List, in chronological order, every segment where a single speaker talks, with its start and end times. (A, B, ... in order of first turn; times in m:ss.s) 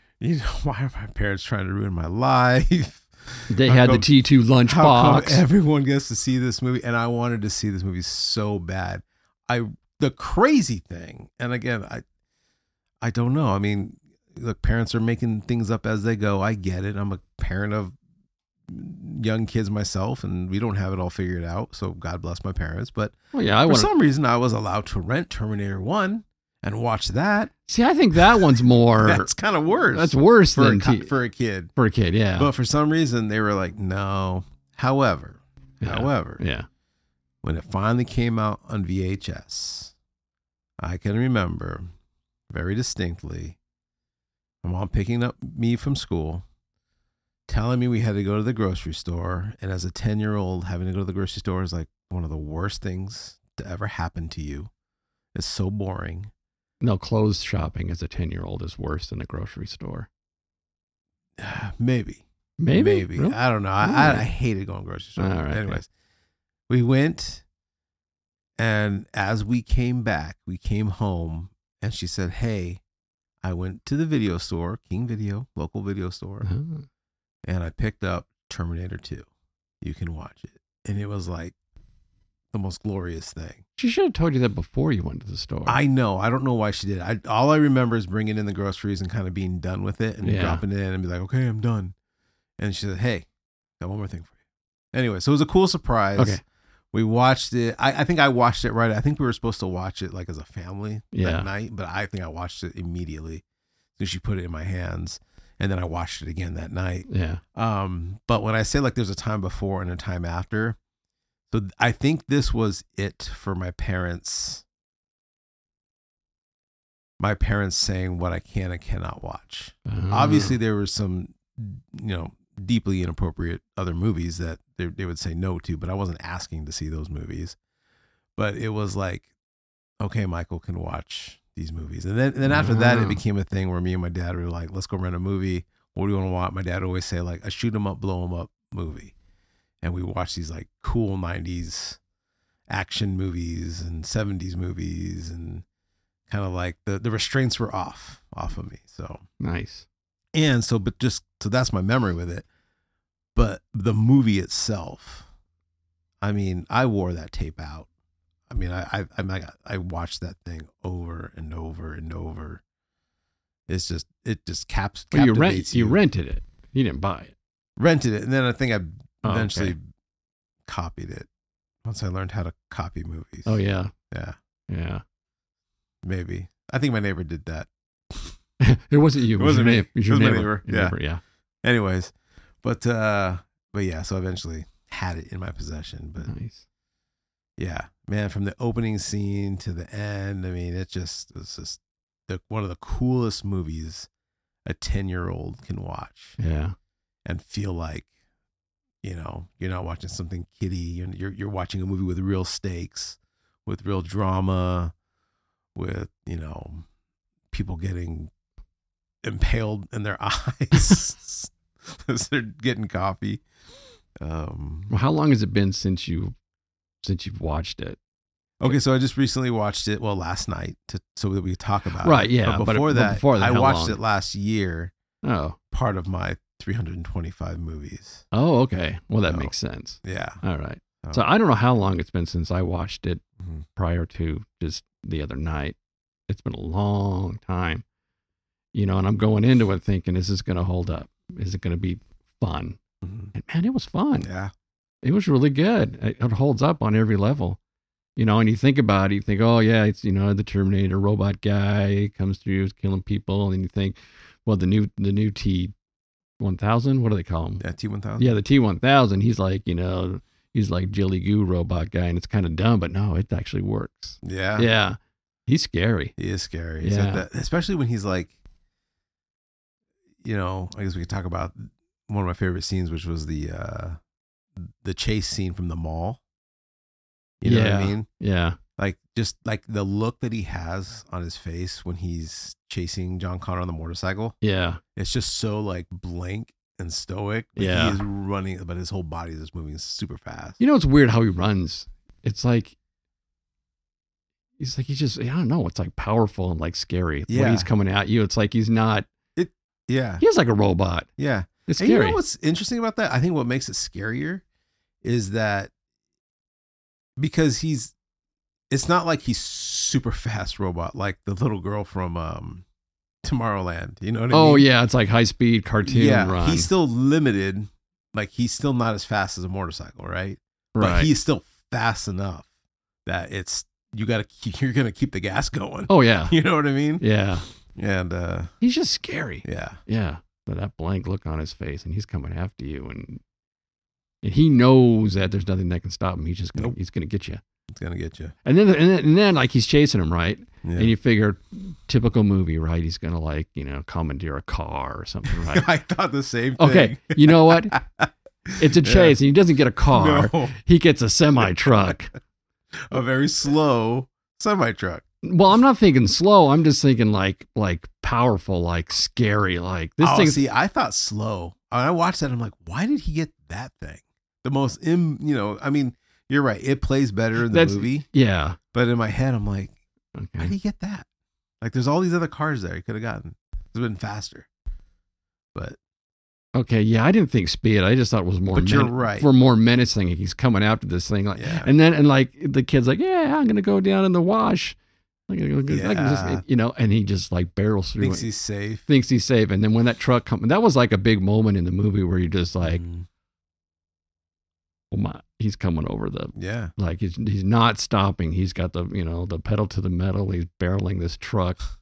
0:00.2-0:04.1 A
0:03.5-0:05.4 B
0:04.6-0:12.0 A
0:13.0-0:17.9 A
0:18.7-0:27.5 A
0:23.3-0:23.9 B
0:27.7-0:29.3 B
0:28.2-0:31.7 A
0:29.9-0:31.1 B
0:31.8-0:32.5 B
0:32.4-0:36.4 A
0:35.8-0:36.7 B
0:37.4-0:39.9 A
0:40.8-0:41.9 A
0:42.5-0:43.6 A
0:44.6-0:46.4 A
0:47.5-0:54.7 A
0:55.3-0:56.3 A
0:56.8-1:00.1 B
1:01.4-1:05.9 A
1:02.6-1:04.3 B
1:05.2-1:05.8 B
1:06.7-1:07.4 A
1:08.6-1:12.8 A
1:13.4-1:16.5 A
1:16.4-1:16.8 B
1:17.4-1:19.3 A
1:19.8-1:21.5 A
1:22.5-1:23.6 A
1:23.8-1:25.8 B
1:25.7-1:31.9 A
1:30.2-1:30.6 B
1:32.6-1:33.3 A
1:33.8-1:34.3 A
1:34.9-1:36.4 A
1:36.9-1:43.4 A
1:41.1-1:41.5 B
1:44.0-1:50.8 A
1:47.1-1:47.4 B
1:51.5-1:54.6 A
1:57.2-2:07.6 A
1:59.8-2:00.6 B
2:08.4-2:09.3 A
2:10.0-2:19.1 A
2:12.4-2:13.2 B
2:19.8-2:22.0 A
2:22.7-2:25.6 A
2:26.3-2:29.2 A
2:29.4-2:29.8 B
2:30.3-2:32.4 A
2:33.3-2:35.3 A
2:36.2-2:37.9 A
2:38.5-2:42.6 A
2:43.7-2:46.0 A
2:45.1-2:47.3 B
2:47.8-2:49.8 A
2:49.2-2:49.7 B
2:50.6-2:51.3 A
2:51.8-2:53.6 A
2:53.4-2:53.9 B
2:54.1-2:54.4 A
2:54.7-2:55.0 B
2:56.0-2:58.4 A
2:58.6-3:01.2 B
2:59.4-3:00.9 A
3:01.6-3:06.3 A
3:06.2-3:06.6 B
3:07.6-3:14.1 A
3:14.6-3:16.4 A
3:16.4-3:16.8 B
3:17.2-3:18.1 A
3:19.0-3:24.9 A
3:25.7-3:26.8 A
3:27.5-3:28.3 A
3:29.2-3:33.4 A
3:34.2-3:34.9 A
3:34.9-3:36.3 B
3:37.0-3:38.0 B
3:38.6-3:44.9 A
3:42.0-3:44.0 B
3:45.2-3:45.6 B
3:45.7-3:48.2 A
3:48.3-3:53.2 B
3:49.2-3:50.4 A
3:53.8-3:55.8 B
3:56.3-3:57.8 B
3:58.7-4:02.8 B
4:03.0-4:03.3 A
4:03.3-4:04.3 B
4:04.2-4:04.5 A
4:05.0-4:07.6 B
4:08.2-4:15.7 B
4:16.4-4:17.6 B
4:17.6-4:18.4 A
4:18.2-4:26.1 B
4:24.2-4:24.7 A
4:26.2-4:28.3 A
4:26.8-4:27.2 B
4:30.2-4:34.0 A
4:34.6-4:36.2 A
4:37.4-4:38.1 A
4:37.4-4:38.6 B
4:38.8-4:44.4 A
4:44.4-4:44.8 B
4:45.0-4:50.6 A
4:47.6-4:48.0 B
4:50.6-4:52.8 B
4:54.6-4:59.1 B
4:57.3-4:57.7 A
4:59.4-5:00.2 A
5:00.2-5:01.1 B
5:01.2-5:04.4 A
5:01.7-5:02.2 B
5:05.0-5:05.7 A
5:07.2-5:07.9 A
5:08.7-5:12.6 A
5:13.2-5:14.7 A
5:14.3-5:16.7 B
5:15.8-5:22.5 A
5:20.8-5:21.1 B
5:23.0-5:27.0 A
5:25.9-5:26.4 B
5:27.0-5:27.4 B
5:27.7-5:28.5 A
5:28.6-5:33.2 B
5:29.4-5:29.8 A
5:34.2-5:37.4 B
5:37.7-5:38.3 A
5:38.4-5:45.6 B
5:40.6-5:40.9 A
5:45.3-5:49.2 A
5:46.6-5:47.8 B
5:48.6-5:52.1 B
5:49.9-5:50.6 A
5:52.9-5:55.0 A
5:55.2-6:00.4 B
6:00.0-6:08.1 A
6:07.4-6:08.6 B
6:08.7-6:09.8 A
6:10.1-6:10.5 B
6:10.4-6:11.0 A
6:11.6-6:14.5 A
6:16.5-6:24.8 B
6:18.5-6:19.3 A
6:21.3-6:21.7 A
6:25.3-6:28.2 B
6:25.7-6:26.4 A
6:28.0-6:28.9 A
6:28.9-6:32.8 B
6:32.6-6:33.0 A
6:34.9-6:41.6 B
6:36.3-6:36.7 A